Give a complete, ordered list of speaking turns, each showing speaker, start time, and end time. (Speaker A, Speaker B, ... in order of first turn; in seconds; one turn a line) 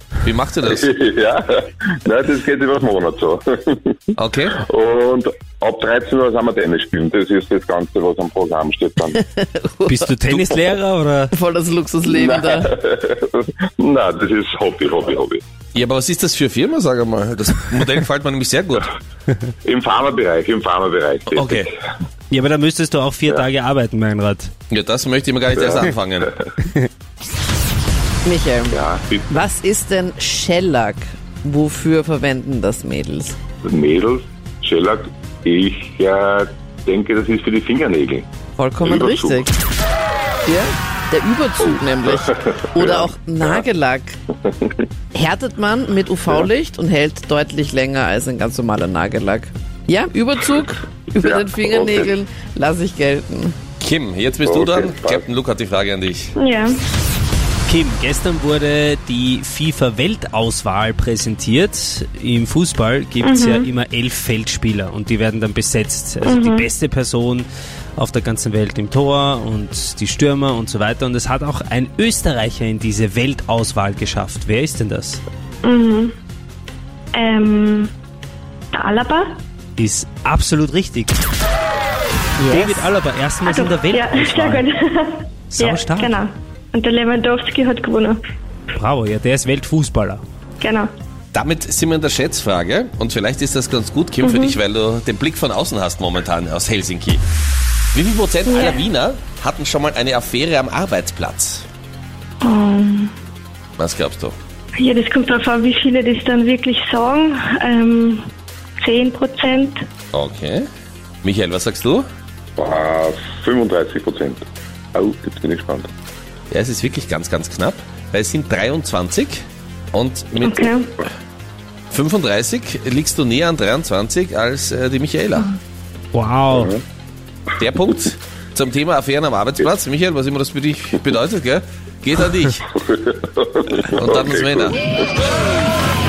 Speaker A: 0.2-0.9
Speaker B: 0.7-4.0
Speaker A: 4.2-4.5
Speaker B: 4.5-9.2
Speaker C: 9.3-10.1
Speaker D: 9.8-11.3
Speaker C: 11.3-12.7
Speaker B: 12.1-15.4
Speaker A: 15.7-18.9
Speaker B: 19.6-21.6
Speaker A: 21.3-21.7
Speaker D: 22.3-24.5
Speaker A: 24.7-26.3
Speaker B: 25.5-25.9
Speaker C: 28.2-28.8
Speaker B: 28.7-29.3
Speaker C: 29.3-33.4
Speaker B: 33.6-38.2
Speaker C: 38.6-39.5
Speaker B: 38.8-39.5
Speaker C: 40.5-44.2
Speaker B: 42.0-43.1
Speaker C: 45.1-53.5
Speaker B: 51.1-52.1
Speaker A: 53.8-56.3
Speaker B: 54.4-55.2
Speaker E: 56.4-56.8
Speaker D: 57.7-75.2
Speaker E: 63.2-63.7
Speaker E: 66.2-66.7
Speaker E: 75.6-76.1
Speaker E: 77.1-77.9
Speaker E: 78.7-79.4
Speaker D: 79.8-81.2
Speaker D: 82.4-84.7
Speaker E: 83.5-88.2
Speaker D: 85.5-86.1
Speaker D: 88.8-90.2
Speaker E: 90.6-90.9
Speaker A: 91.3-97.2
Speaker E: 94.2-94.5
Speaker A: 97.9-101.6
Speaker E: 98.5-98.8
Speaker E: 102.4-103.1
Speaker A: 103.8-104.3
Speaker E: 104.8-108.2
Speaker E: 108.8-109.8
Speaker A: 110.1-110.6
Speaker A: 111.2-112.0
Speaker B: 112.6-114.4
Speaker B: 114.9-115.9
Speaker A: 116.5-119.4
Speaker A: 119.9-120.7
Speaker E: 120.4-120.9
Speaker A: 121.9-125.6
Speaker D: 126.1-126.7
Speaker B: 126.5-126.8
Speaker A: 127.6-132.6
Speaker B: 132.7-134.8
Speaker A: 133.9-134.8